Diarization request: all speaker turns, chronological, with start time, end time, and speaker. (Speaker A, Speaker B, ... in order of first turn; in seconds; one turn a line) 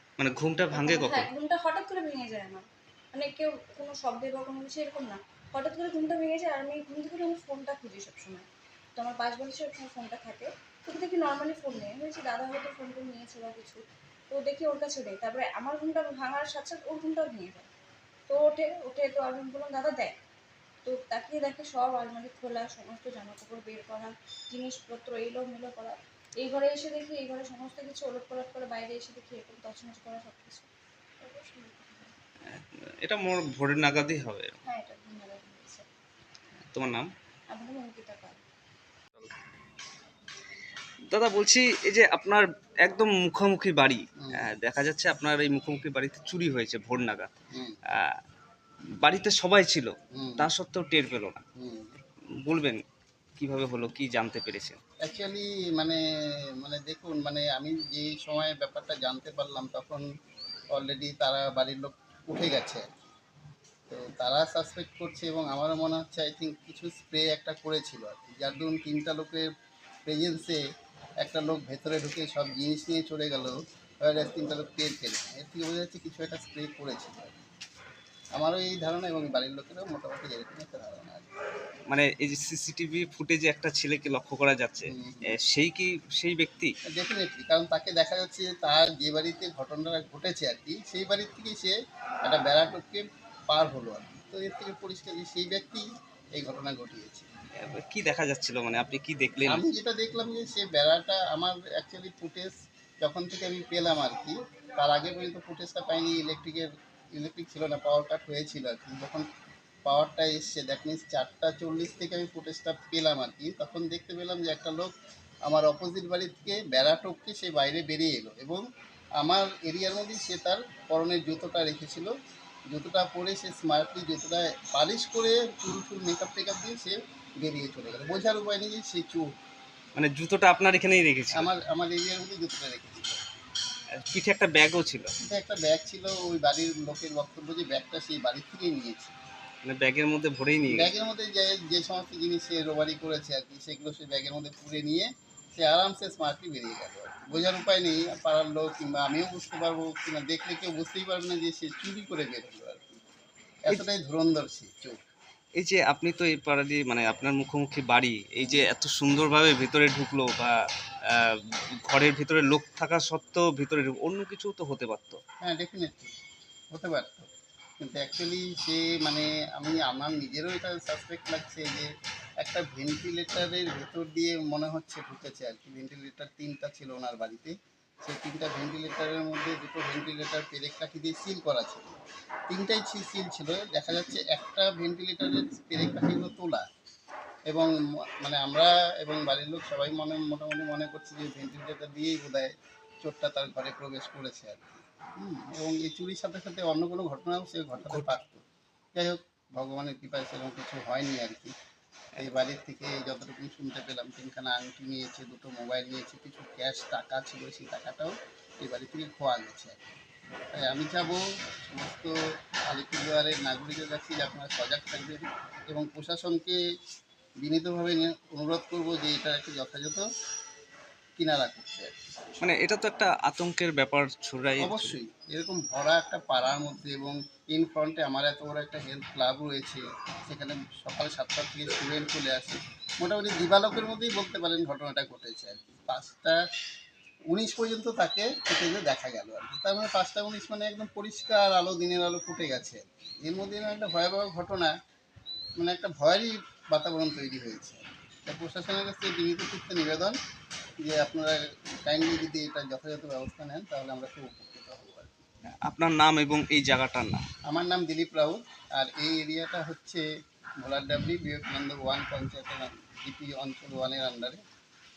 Speaker A: 0.2-1.3
Speaker B: 0.7-17.7
Speaker B: 18.3-20.2
Speaker B: 20.8-30.7
Speaker B: 31.2-32.1
Speaker A: 32.5-34.6
Speaker B: 34.6-35.9
Speaker A: 36.7-37.1
Speaker B: 37.5-38.4
Speaker A: 41.1-47.3
Speaker C: 44.2-44.5
Speaker C: 47.5-47.8
Speaker A: 47.9-48.2
Speaker A: 49.0-51.4
Speaker C: 50.1-50.5
Speaker C: 51.6-51.9
Speaker A: 52.5-52.8
Speaker A: 53.4-54.8
Speaker C: 55.0-56.0
Speaker C: 56.6-60.0
Speaker C: 60.7-63.1
Speaker C: 63.9-69.5
Speaker C: 70.0-70.6
Speaker C: 71.2-77.4
Speaker C: 78.3-81.3
Speaker A: 81.9-86.7
Speaker C: 84.9-85.4
Speaker C: 86.9-97.3
Speaker A: 97.6-99.6
Speaker C: 99.5-109.2
Speaker C: 109.8-114.9
Speaker C: 115.5-118.6
Speaker C: 119.2-122.1
Speaker C: 122.7-129.3
Speaker A: 129.9-131.5
Speaker C: 131.3-133.2
Speaker A: 133.9-135.1
Speaker C: 135.3-139.2
Speaker A: 139.6-140.9
Speaker C: 140.7-153.0
Speaker C: 153.7-155.0
Speaker A: 155.6-160.6
Speaker A: 161.1-165.2
Speaker C: 165.4-166.1
Speaker C: 166.7-167.3
Speaker C: 167.8-171.9
Speaker C: 172.4-181.9
Speaker C: 182.5-186.7
Speaker C: 187.5-198.4
Speaker A: 197.9-198.1
Speaker C: 198.9-201.5
Speaker C: 202.2-209.9
Speaker C: 210.5-212.2
Speaker C: 212.7-216.6
Speaker C: 217.4-220.1
Speaker C: 221.2-221.9
Speaker A: 222.4-225.0
Speaker C: 224.6-236.4
Speaker C: 237.3-244.7
Speaker C: 245.6-250.2
Speaker C: 250.8-255.2
Speaker A: 255.7-257.2
Speaker C: 257.5-260.1
Speaker C: 260.6-264.4